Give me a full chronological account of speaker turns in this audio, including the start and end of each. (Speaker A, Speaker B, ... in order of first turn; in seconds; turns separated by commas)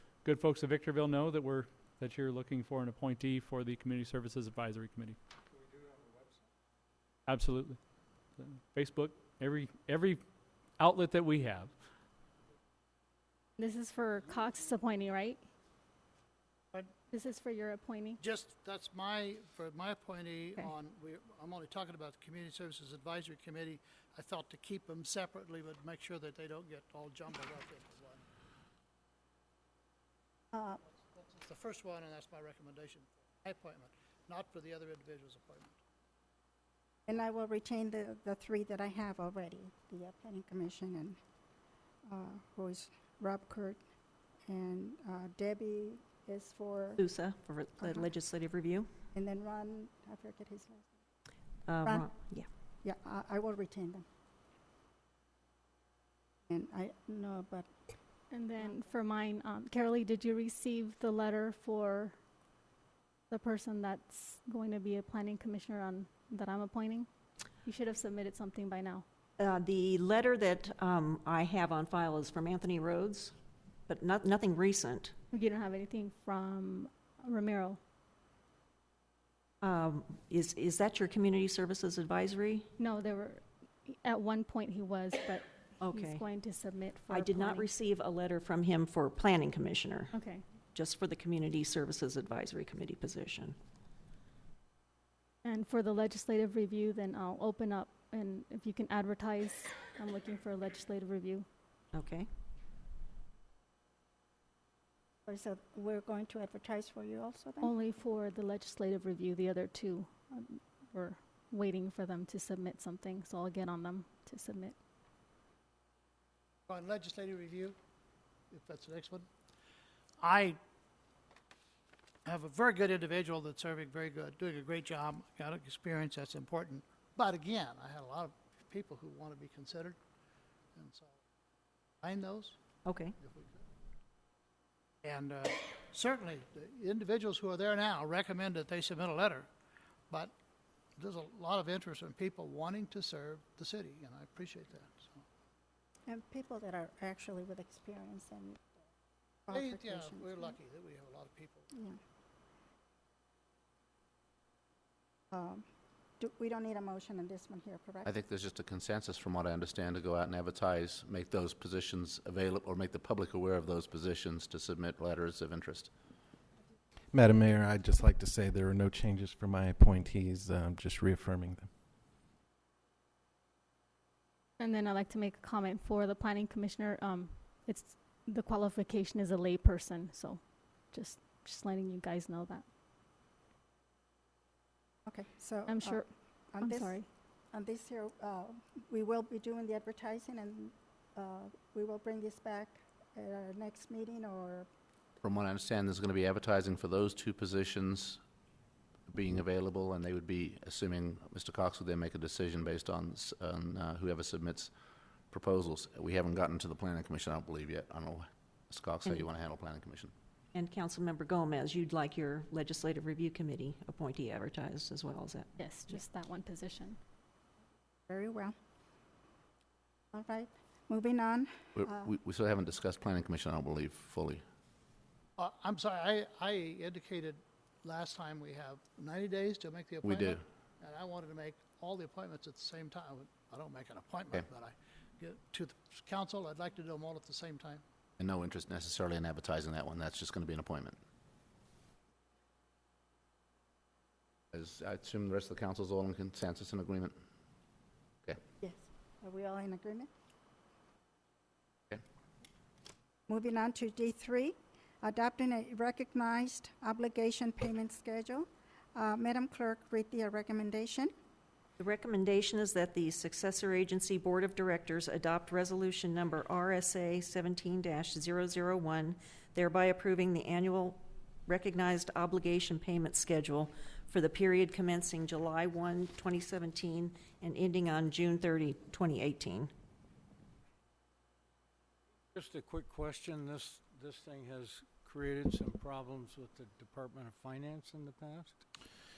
Speaker A: 0.2-5.2, Speaker A: 7.3-7.8, Speaker A: 8.4-10.2, Speaker A: 10.8-11.7, Speaker B: 13.6-15.4, Speaker B: 17.1-18.2, Speaker C: 18.2-28.2, Speaker D: 30.5-30.8, Speaker C: 31.2-35.8, Speaker D: 37.1-41.2, Speaker D: 42.0-43.8, Speaker D: 44.5-47.0, Speaker E: 47.0-48.9, Speaker D: 49.1-50.9, Speaker E: 51.7-52.5, Speaker D: 52.8-54.0, Speaker D: 56.5-57.7, Speaker B: 58.3-62.2, Speaker B: 63.3-67.1, Speaker B: 67.6-69.1, Speaker E: 69.4-73.3, Speaker E: 73.9-75.1, Speaker B: 75.3-77.8, Speaker E: 79.6-82.7, Speaker B: 82.8-87.7, Speaker E: 85.8-86.2, Speaker E: 87.1-90.1, Speaker B: 90.1-90.4, Speaker E: 90.7-93.6, Speaker B: 95.4-101.5, Speaker E: 101.9-102.3, Speaker D: 105.2-107.7, Speaker B: 107.6-114.8, Speaker C: 116.7-117.8, Speaker C: 118.5-119.3, Speaker C: 120.2-120.6, Speaker C: 122.2-130.0, Speaker C: 130.8-131.2, Speaker C: 132.0-132.6, Speaker E: 132.8-133.2, Speaker C: 133.2-133.6, Speaker C: 135.0-139.5, Speaker C: 141.0-145.2, Speaker D: 146.1-148.9, Speaker D: 149.5-150.6, Speaker C: 149.5-151.7, Speaker D: 151.7-152.0, Speaker D: 155.3-155.7, Speaker D: 156.2-158.1, Speaker F: 158.1-165.9, Speaker G: 167.1-171.7, Speaker B: 174.6-182.7, Speaker D: 185.1-187.0, Speaker B: 185.7-186.1, Speaker B: 186.6-187.1, Speaker D: 187.5-194.7, Speaker F: 195.2-198.2, Speaker F: 199.1-204.7, Speaker F: 205.3-210.1, Speaker E: 210.5-216.0, Speaker B: 215.6-217.0, Speaker D: 218.1-218.6, Speaker D: 220.1-222.1, Speaker F: 221.8-224.4, Speaker C: 225.4-237.8, Speaker F: 230.0-230.4, Speaker F: 238.2-241.0, Speaker F: 244.5-247.2, Speaker D: 248.6-250.1, Speaker D: 253.3-261.1, Speaker E: 261.8-279.7, Speaker H: 282.3-288.6